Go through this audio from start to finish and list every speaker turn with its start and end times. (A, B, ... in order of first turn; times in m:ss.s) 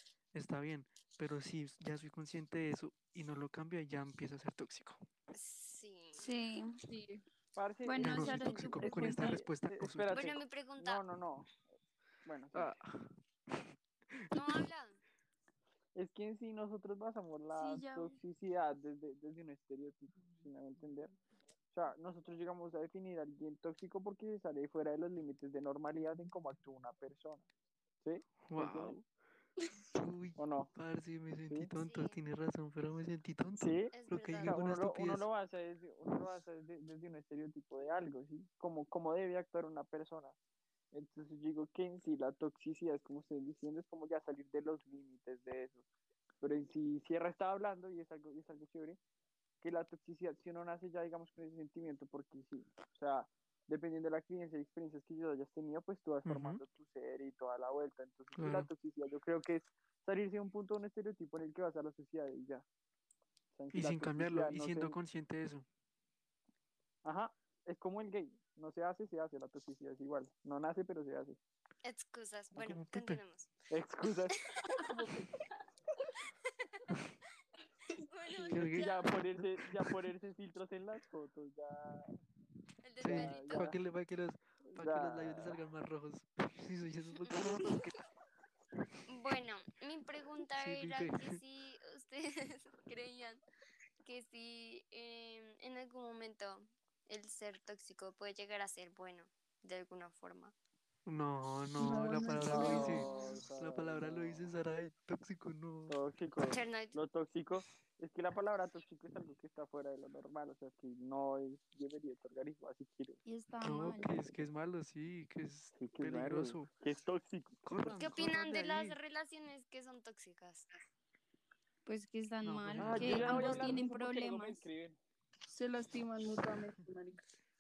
0:00.3-0:05.0 A
0:05.3-0:06.2 B
0:06.1-0:06.8 C
0:06.9-0:07.2 D
0:07.5-0:11.6 E
0:07.8-0:09.4 C
0:08.0-0:10.3 A
0:10.1-0:11.0 B
0:12.2-0:12.8 E
0:12.5-0:13.1 A
0:14.1-0:14.6 A
0:14.3-0:15.0 B
0:15.9-0:21.1 E
0:17.5-0:18.2 C
0:21.7-0:27.4 E
0:28.0-0:29.0 E
0:28.4-0:29.0 A
0:29.9-0:35.2 A
0:30.4-0:30.7 E
0:31.8-0:32.2 B
0:33.6-0:33.9 E
0:33.9-0:34.5 B
0:34.4-0:40.4 E
0:40.9-0:45.8 E
0:46.4-0:49.0 E
0:49.6-1:02.6 E
0:56.2-0:56.6 A
0:58.4-0:58.7 A
1:03.6-1:05.0 E
1:03.7-1:05.7 A
1:07.0-1:11.4 E
1:11.8-1:13.5 B
1:12.5-1:13.2 A
1:13.7-1:15.4 E
1:18.0-1:19.2 B
1:18.5-1:20.1 A
1:18.5-1:22.1 E
1:22.8-1:23.7 B
1:23.0-1:28.0 A
1:23.0-1:23.8 E
1:24.7-1:25.6 E
1:27.2-1:27.7 B
1:29.1-1:33.4 B
1:30.6-1:31.4 A
1:34.0-1:40.5 B
1:41.0-1:46.0 A
1:41.8-1:43.2 D
1:42.4-1:44.5 E
1:45.9-1:53.2 E
1:46.4-1:47.0 B
1:53.2-1:54.1 C
1:53.6-1:56.7 A
1:55.8-1:57.6 E
1:57.6-1:59.0 A
1:58.0-2:00.8 B
2:01.9-2:04.6 C
2:02.4-2:03.8 A
2:02.8-2:05.0 E
2:05.5-2:07.2 D